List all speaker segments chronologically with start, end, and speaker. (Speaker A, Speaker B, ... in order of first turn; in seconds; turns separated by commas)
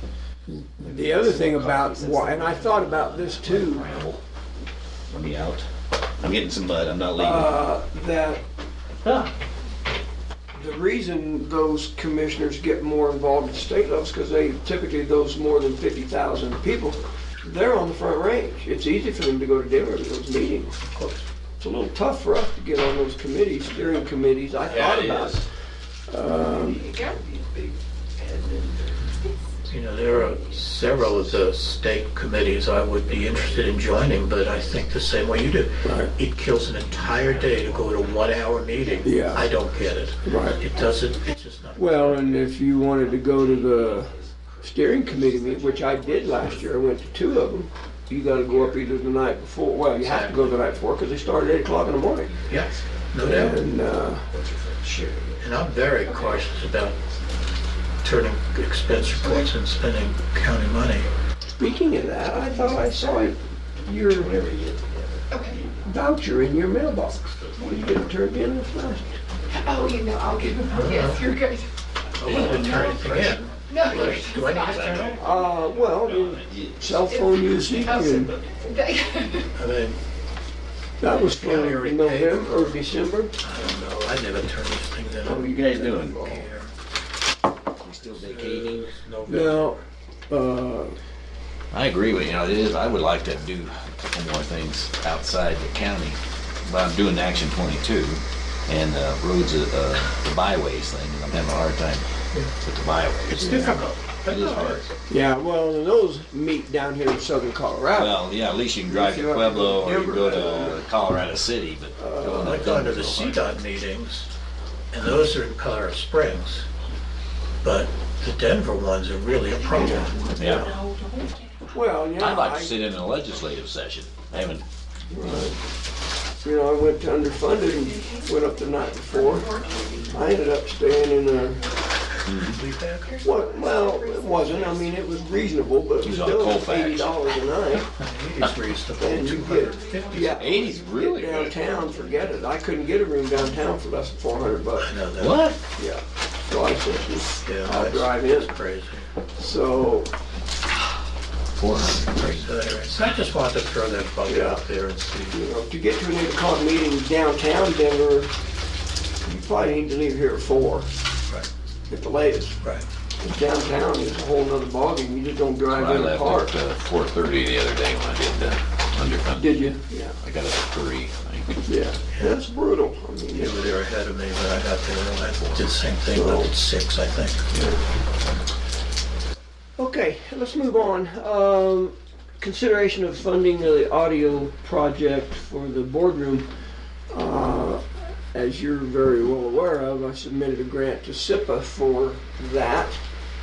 Speaker A: 0.5-4.0, Speaker B: 0.8-4.2, Speaker B: 5.1-5.7, Speaker B: 6.2-7.6, Speaker A: 7.2-8.4, Speaker B: 9.1-9.3, Speaker A: 10.6-20.8, Speaker C: 20.8-21.2, Speaker A: 21.6-25.4, Speaker B: 24.6-25.5, Speaker A: 26.1-26.8, Speaker B: 26.4-29.1, Speaker D: 26.8-27.2, Speaker C: 29.7-42.4, Speaker B: 30.0-31.5, Speaker B: 32.5-35.4, Speaker A: 35.8-36.1, Speaker B: 36.6-40.9, Speaker A: 39.0-39.5, Speaker A: 40.2-40.6, Speaker A: 41.8-52.3, Speaker B: 42.7-47.5, Speaker B: 48.5-48.9, Speaker B: 50.0-53.1, Speaker C: 50.1-50.4, Speaker C: 52.5-53.6, Speaker A: 53.2-54.3, Speaker B: 54.3-55.7, Speaker C: 55.4-57.0, Speaker D: 56.0-56.4, Speaker C: 58.0-61.1, Speaker D: 59.2-59.5, Speaker A: 61.6-64.3, Speaker B: 61.8-63.0, Speaker B: 64.0-65.8, Speaker D: 65.3-65.6, Speaker A: 65.8-69.2, Speaker B: 67.1-70.8, Speaker D: 69.5-71.7, Speaker C: 70.7-71.3, Speaker B: 72.2-77.0, Speaker C: 72.2-75.2, Speaker D: 72.3-73.2, Speaker D: 73.7-75.2, Speaker A: 75.2-78.3, Speaker D: 77.1-79.5, Speaker C: 79.5-80.0, Speaker A: 81.0-83.3, Speaker C: 81.1-82.8, Speaker C: 83.4-86.7, Speaker A: 85.2-86.5, Speaker B: 85.3-86.2, Speaker B: 87.8-89.0, Speaker C: 88.1-89.8, Speaker A: 89.3-91.0, Speaker B: 91.7-102.0, Speaker B: 102.6-103.7, Speaker C: 103.3-104.9, Speaker A: 103.4-103.8, Speaker B: 104.2-104.9, Speaker A: 105.1-108.2, Speaker B: 107.9-113.5, Speaker A: 108.8-110.8, Speaker A: 112.0-112.5, Speaker C: 112.3-114.3, Speaker C: 114.9-116.7, Speaker C: 117.6-120.8, Speaker D: 119.6-121.7, Speaker A: 119.7-120.2, Speaker B: 120.3-120.7, Speaker A: 121.7-122.8, Speaker B: 122.2-124.7, Speaker A: 125.1-125.6, Speaker A: 126.4-129.5, Speaker D: 127.5-130.3, Speaker A: 130.1-131.6, Speaker B: 132.3-132.6, Speaker C: 132.4-133.2, Speaker D: 133.0-135.4, Speaker A: 133.2-137.9, Speaker B: 136.0-137.2, Speaker C: 138.0-140.5, Speaker A: 139.0-144.9, Speaker D: 139.6-140.7, Speaker B: 140.3-142.3, Speaker C: 144.8-145.5, Speaker B: 145.2-145.6, Speaker A: 145.8-148.5, Speaker C: 147.4-149.1, Speaker A: 149.4-150.1, Speaker B: 151.6-152.5, Speaker C: 152.2-155.4, Speaker A: 154.3-154.6, Speaker A: 155.3-158.3, Speaker A: 159.2-160.9, Speaker A: 161.9-162.6, Speaker A: 163.2-166.6, Speaker B: 165.7-171.6, Speaker A: 169.3-170.2, Speaker A: 171.7-173.6, Speaker C: 173.3-177.5, Speaker A: 176.1-176.5, Speaker A: 177.5-177.8, Speaker A: 179.8-186.5, Speaker A: 187.1-193.0